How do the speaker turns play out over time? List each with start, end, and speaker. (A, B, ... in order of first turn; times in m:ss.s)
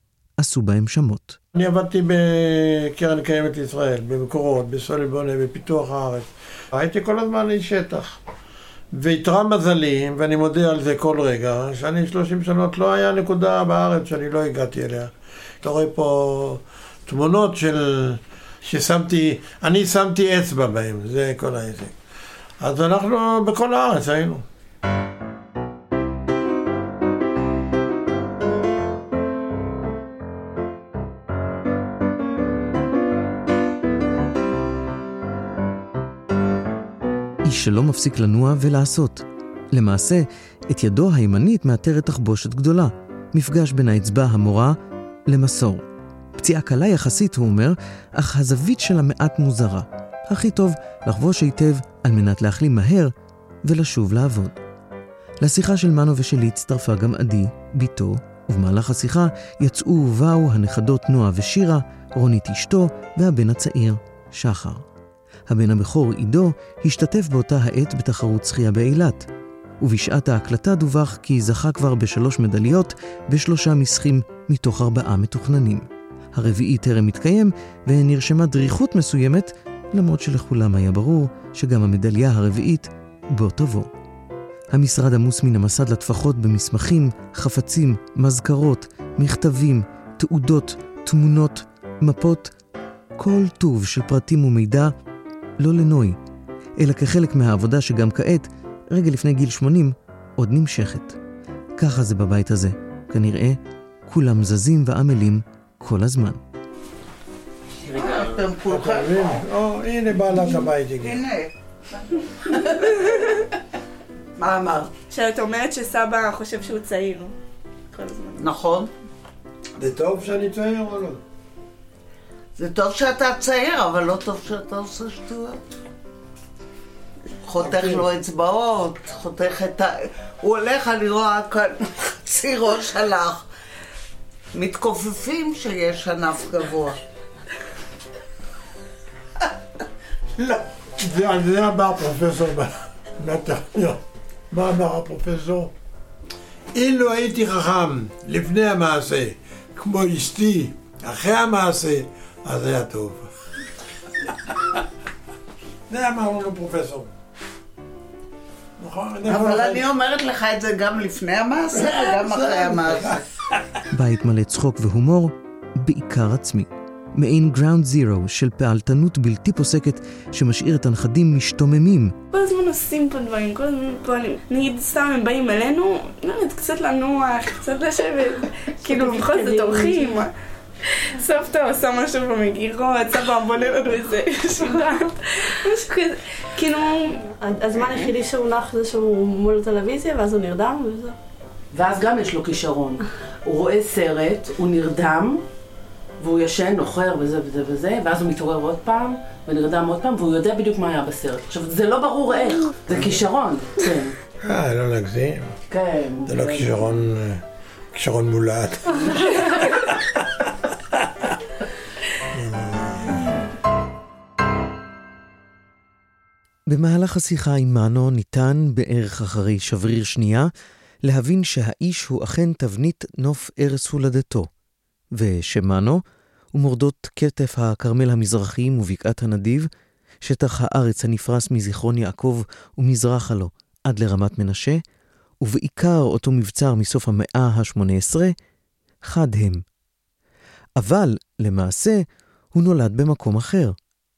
0:00.4-0:01.4 A
0:01.5-0:08.2 B
0:08.9-0:22.0 B
0:22.6-0:24.4 B
0:37.4-0:44.8 A
0:45.3-0:45.8 A
0:46.4-0:53.1 A
0:53.6-0:54.6 A
0:55.4-1:04.8 A
1:05.5-1:09.2 A
1:09.8-1:23.9 A
1:24.7-1:32.5 A
1:33.2-1:34.9 A
1:35.6-1:36.2 A
1:36.8-1:41.2 A
1:41.8-1:46.4 A
1:47.8-1:49.4 C
1:48.6-1:51.2 B
1:51.0-1:51.5 C
1:52.1-1:53.3 C
1:54.4-1:54.9 C
1:55.1-1:57.3 D
1:57.9-1:58.4 D
1:58.4-1:58.9 C
1:59.8-2:01.2 B
2:02.6-2:05.6 C
2:07.4-2:13.4 C
2:07.6-2:08.1 B
2:14.5-2:17.0 C
2:20.4-2:20.6 C
2:21.0-2:25.7 B
2:26.7-2:33.3 B
2:34.2-2:34.8 B
2:35.9-2:37.1 B
2:38.8-2:39.9 B
2:39.2-2:43.2 C
2:41.7-2:43.6 B
2:43.9-2:52.1 A
2:52.3-3:00.3 D
2:58.9-3:00.2 E
3:01.2-3:07.2 D
3:07.4-3:11.2 E
3:11.7-3:15.4 F
3:16.2-3:24.1 F
3:24.4-3:25.5 B
3:25.7-3:26.7 F
3:26.2-3:29.1 B
3:29.2-3:29.7 F
3:32.3-3:33.4 B
3:36.7-3:40.5 A
3:41.0-3:44.5 A
3:45.1-3:46.0 A
3:46.5-3:49.7 A
3:50.2-3:54.8 A
3:55.4-3:58.3 A
3:59.0-3:59.6 A
4:00.8-4:03.8 A